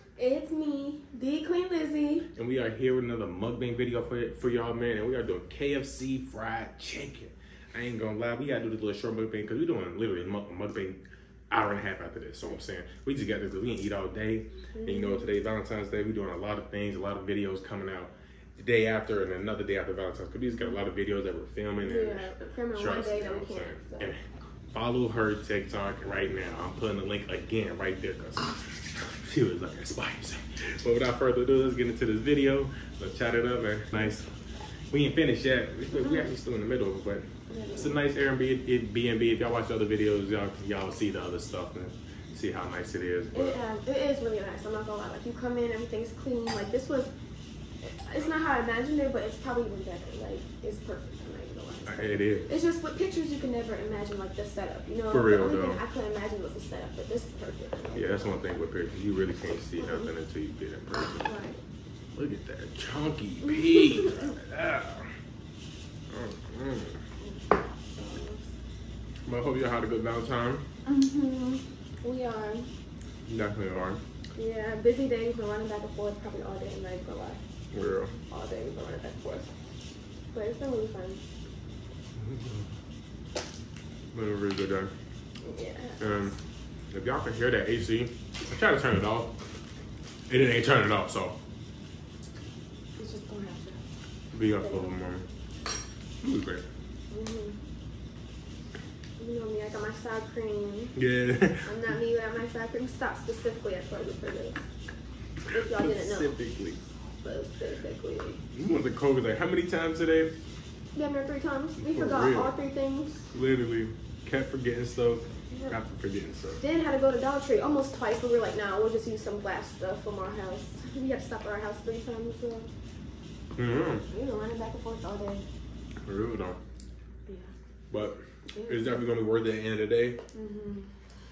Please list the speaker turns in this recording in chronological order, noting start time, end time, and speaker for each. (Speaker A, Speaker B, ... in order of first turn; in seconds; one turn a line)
Speaker A: 0.2-2.3
Speaker B: 2.4-11.0
Speaker B: 11.5-24.2
Speaker A: 14.8-15.3
Speaker A: 21.8-24.1
Speaker B: 24.7-34.3
Speaker B: 34.9-43.6
Speaker A: 36.0-36.2
Speaker A: 37.5-38.0
Speaker A: 43.3-47.1
Speaker A: 47.8-58.4
Speaker B: 51.9-52.6
Speaker B: 55.1-55.8
Speaker B: 57.9-61.3
Speaker A: 59.8-60.1
Speaker A: 61.2-61.6
Speaker B: 62.1-65.1
Speaker A: 63.4-64.4
Speaker B: 66.1-67.0
Speaker A: 67.2-68.5
Speaker B: 69.2-70.7
Speaker A: 70.8-72.7
Speaker B: 73.3-74.0
Speaker A: 74.4-77.4
Speaker B: 77.7-78.1
Speaker A: 78.3-79.5
Speaker A: 80.3-81.2
Speaker B: 84.1-84.9
Speaker A: 85.4-86.2
Speaker B: 86.0-86.3
Speaker B: 86.9-89.3
Speaker B: 90.3-91.4
Speaker A: 93.0-93.8
Speaker B: 94.3-95.2
Speaker A: 94.6-95.0
Speaker B: 96.2-96.7
Speaker A: 97.1-97.6
Speaker A: 99.2-101.0
Speaker B: 101.0-101.7
Speaker A: 101.7-104.7
Speaker A: 105.5-106.4
Speaker B: 105.7-106.9
Speaker A: 107.2-108.4
Speaker B: 108.5-110.3
Speaker A: 110.9-113.3
Speaker B: 111.8-112.5
Speaker B: 113.3-116.6
Speaker A: 115.5-115.8
Speaker A: 116.6-122.7
Speaker B: 123.6-124.0
Speaker A: 124.1-125.5
Speaker B: 126.0-126.6
Speaker B: 127.9-130.2
Speaker A: 128.5-129.0
Speaker A: 130.3-130.9